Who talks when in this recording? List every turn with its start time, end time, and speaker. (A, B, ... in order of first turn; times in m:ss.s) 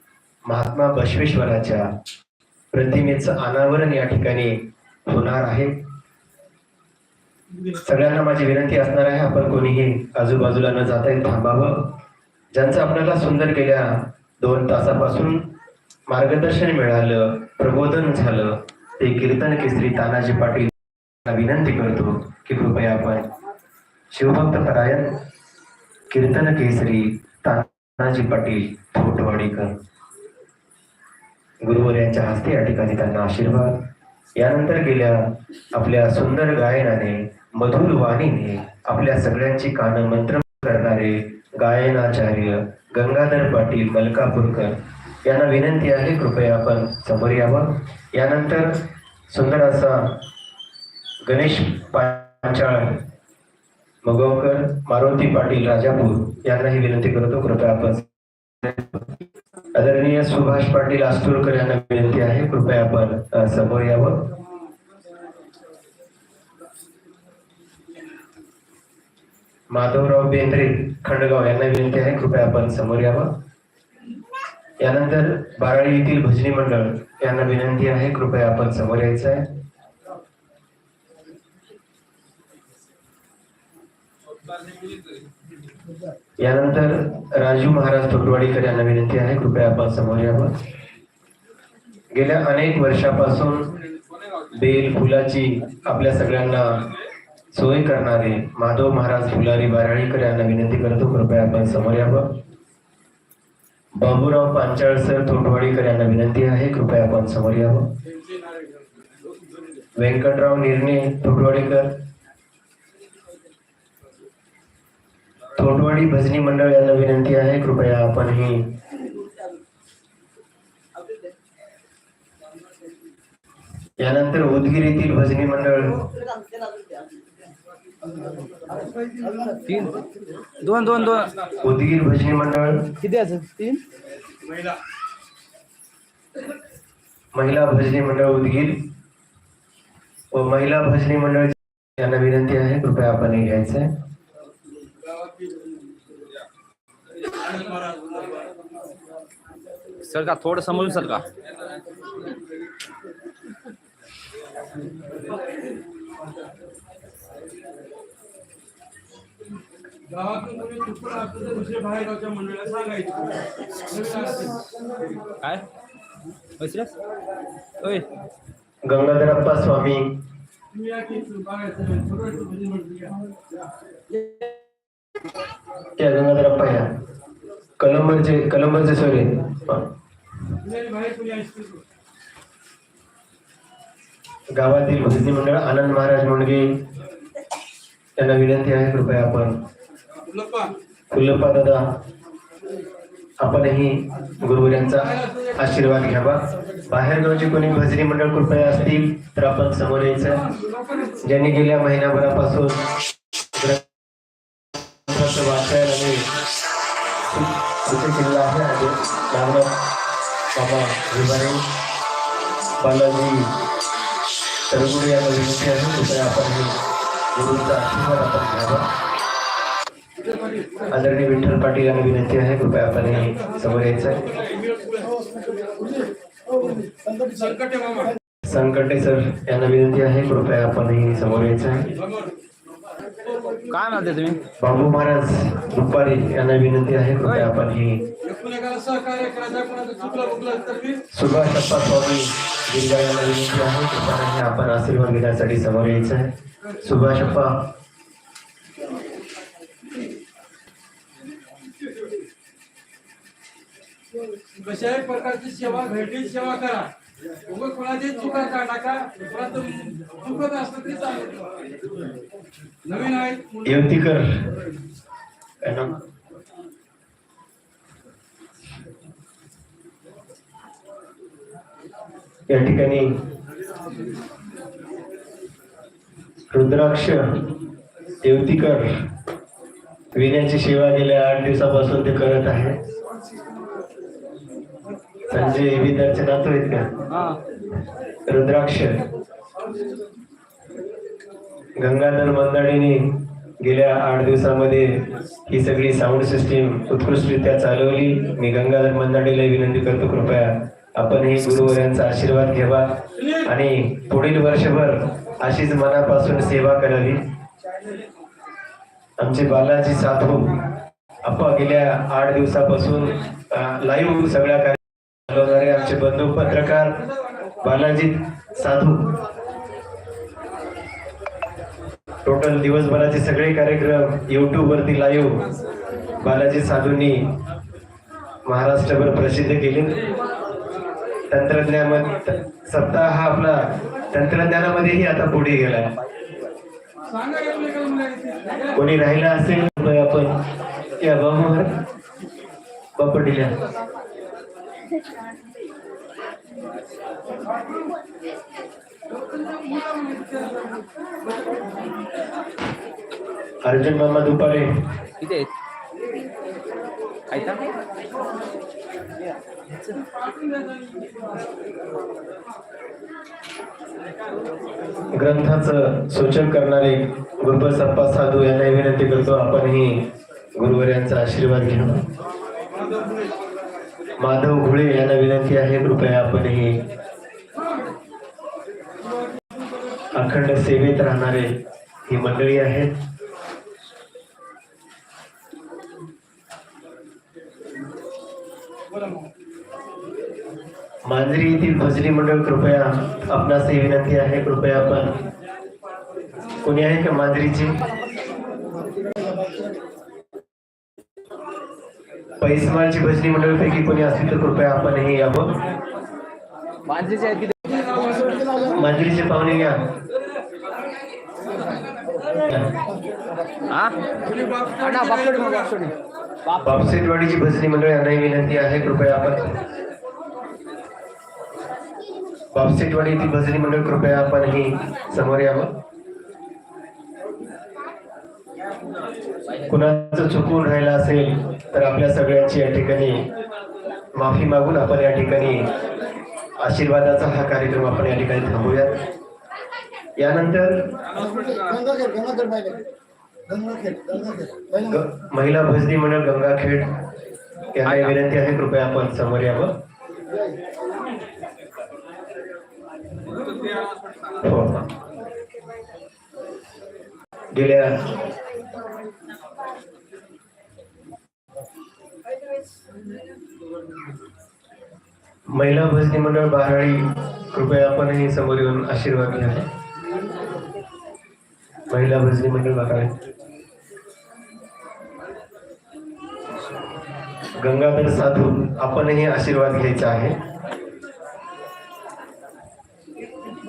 0:00.4-0:01.9 A
0:02.7-0:05.8 A
0:07.8-0:12.0 A
0:12.5-0:15.5 A
0:16.1-0:20.7 A
0:21.2-0:23.3 A
0:24.1-0:25.2 A
0:26.1-0:29.8 A
0:31.6-0:50.2 A
0:51.2-0:53.0 A
0:54.0-0:58.1 A
0:58.6-0:59.0 A
0:59.7-1:04.3 A
1:09.7-1:13.4 A
1:14.8-1:19.5 A
1:26.4-1:30.6 A
1:32.1-1:33.7 A
1:34.5-1:36.9 A
1:37.5-1:42.4 A
1:44.0-1:47.9 A
1:50.0-1:52.0 A
1:55.6-1:58.7 A
2:04.0-2:06.0 A
2:09.6-2:10.0 B
2:10.6-2:11.3 B
2:11.6-2:12.9 A
2:13.0-2:13.8 B
2:17.3-2:18.9 A
2:20.3-2:23.9 A
2:30.0-2:31.2 B
2:40.2-2:43.2 C
2:44.0-2:44.3 C
2:45.4-2:45.6 B
2:46.6-2:46.9 B
2:47.8-2:48.1 B
2:48.9-2:50.2 A
2:50.9-2:53.1 C
2:56.0-2:56.9 A
2:57.8-2:59.9 A
3:00.9-3:01.6 C
3:04.6-3:06.8 A
3:08.2-3:09.6 A
3:10.4-3:10.7 C
3:11.1-3:12.0 A
3:13.4-3:20.4 A
3:21.2-3:22.9 A
3:23.5-3:23.9 A
3:25.0-3:26.3 A
3:27.2-3:29.7 A
3:30.5-3:31.6 A
3:32.8-3:33.5 A
3:34.7-3:36.8 A
3:37.3-3:38.9 A
3:40.9-3:44.3 A
3:47.4-3:48.0 C
3:48.4-3:51.9 A
3:53.7-3:54.4 B
3:54.6-3:58.1 A
3:57.2-3:57.5 B
3:58.4-4:00.9 C
4:01.1-4:07.7 A
4:14.6-4:16.9 C
4:17.5-4:21.3 C
4:22.9-4:23.5 C
4:23.6-4:24.5 A
4:25.6-4:26.0 A
4:32.5-4:33.2 A
4:36.5-4:37.4 A
4:38.2-4:39.0 A
4:40.1-4:42.8 A
4:45.3-4:47.1 A
4:47.1-4:47.4 B
4:48.3-4:49.0 A
4:51.8-5:07.2 A
5:09.2-5:10.7 A
5:11.2-5:17.0 A
5:17.6-5:19.1 A
5:22.2-5:25.4 A
5:26.2-5:27.3 A
5:28.4-5:30.0 A
5:31.3-5:35.9 A
5:37.5-5:38.2 C
5:38.7-5:40.4 A
5:41.0-5:41.7 A
5:43.0-5:43.6 A
5:53.6-5:54.9 A
5:55.2-5:55.5 B
5:57.3-5:57.7 B
6:05.1-6:12.0 A
6:14.2-6:16.8 A
6:20.1-6:21.5 A
6:22.1-6:23.0 A
6:31.1-6:35.1 A
6:36.6-6:37.8 A
6:42.4-6:45.6 A
6:46.8-6:48.0 B
6:48.6-6:49.9 A
6:52.4-6:52.7 A
6:53.7-6:56.0 B
6:56.6-6:59.6 A
7:02.5-7:05.8 A
7:09.7-7:13.3 A
7:14.1-7:15.7 A
7:16.6-7:19.0 A
7:20.2-7:20.9 A
7:24.8-7:27.0 A
7:27.7-7:29.8 A
7:27.9-7:28.1 B
7:34.4-7:34.9 A
7:37.5-7:38.1 A
7:45.5-7:49.7 A
7:51.9-7:53.2 A
7:57.6-8:00.4 A